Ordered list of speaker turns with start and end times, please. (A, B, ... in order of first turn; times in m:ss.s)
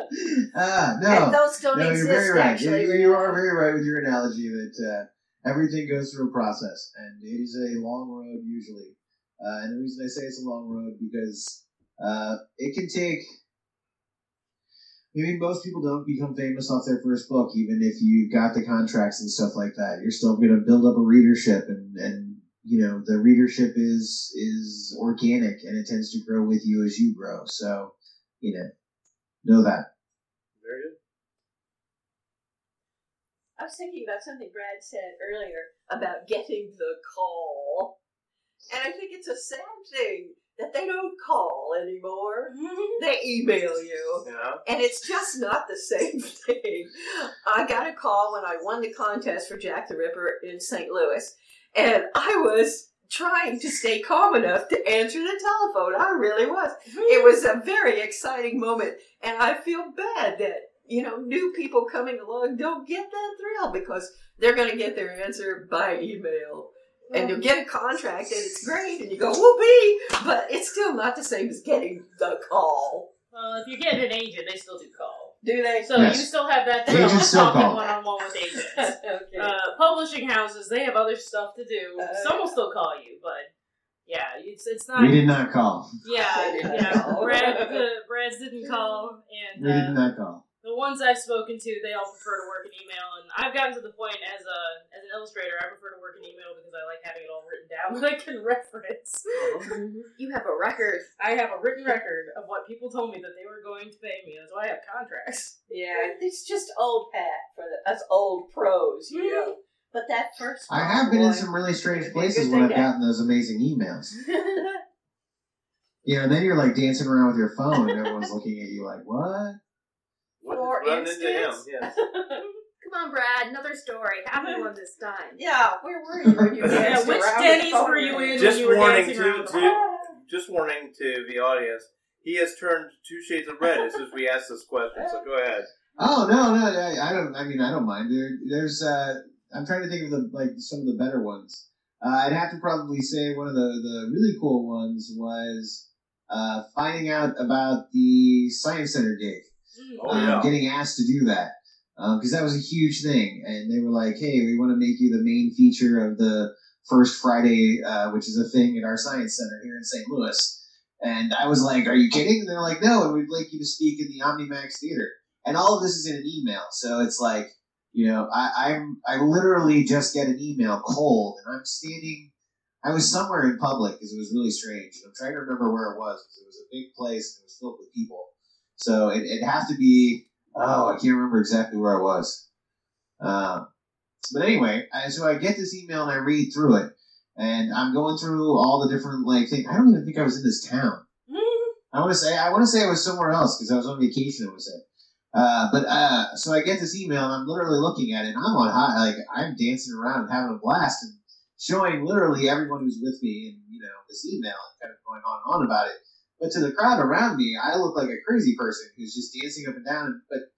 0:00.1-0:13.3 A
0:01.1-0:03.4 B
0:15.1-0:28.7 A
0:29.4-0:29.8 A
0:30.6-0:31.0 C
0:33.6-0:37.9 B
0:38.7-1:13.1 B
0:42.5-0:43.0 D
0:44.2-0:44.6 C
0:56.9-0:57.3 D
1:07.1-1:07.4 D
1:13.3-1:23.5 D
1:15.4-1:16.1 B
1:16.0-1:16.3 A
1:16.9-1:17.9 A
1:16.9-1:17.4 B
1:18.8-1:19.5 B
1:22.0-1:22.5 B
1:24.0-1:25.2 D
1:24.9-1:25.9 A
1:26.0-1:30.0 D
1:26.2-1:27.8 B
1:29.6-1:30.4 A
1:30.6-1:39.7 D
1:39.3-1:39.7 C
1:39.6-1:41.1 E
1:41.2-1:46.1 D
1:45.7-1:52.9 B
1:49.1-1:49.5 D
1:50.7-1:54.1 A
1:54.2-1:54.8 B
1:56.0-1:59.6 A
2:00.4-2:01.9 C
2:00.5-2:02.4 B
2:02.8-2:05.4 E
2:04.4-2:04.6 D
2:05.3-2:08.5 B
2:06.2-2:06.5 A
2:06.6-2:06.9 C
2:06.7-2:09.8 D
2:08.4-2:15.7 C
2:09.5-2:10.2 B
2:14.9-2:15.2 B
2:16.0-2:29.5 A
2:29.8-2:30.2 D
2:30.0-2:30.5 C
2:30.1-2:52.3 A
2:52.8-3:02.4 A
3:03.2-3:03.6 A
3:04.3-3:11.0 A
3:11.3-3:11.7 D
3:11.9-3:14.8 A
3:15.3-3:30.4 A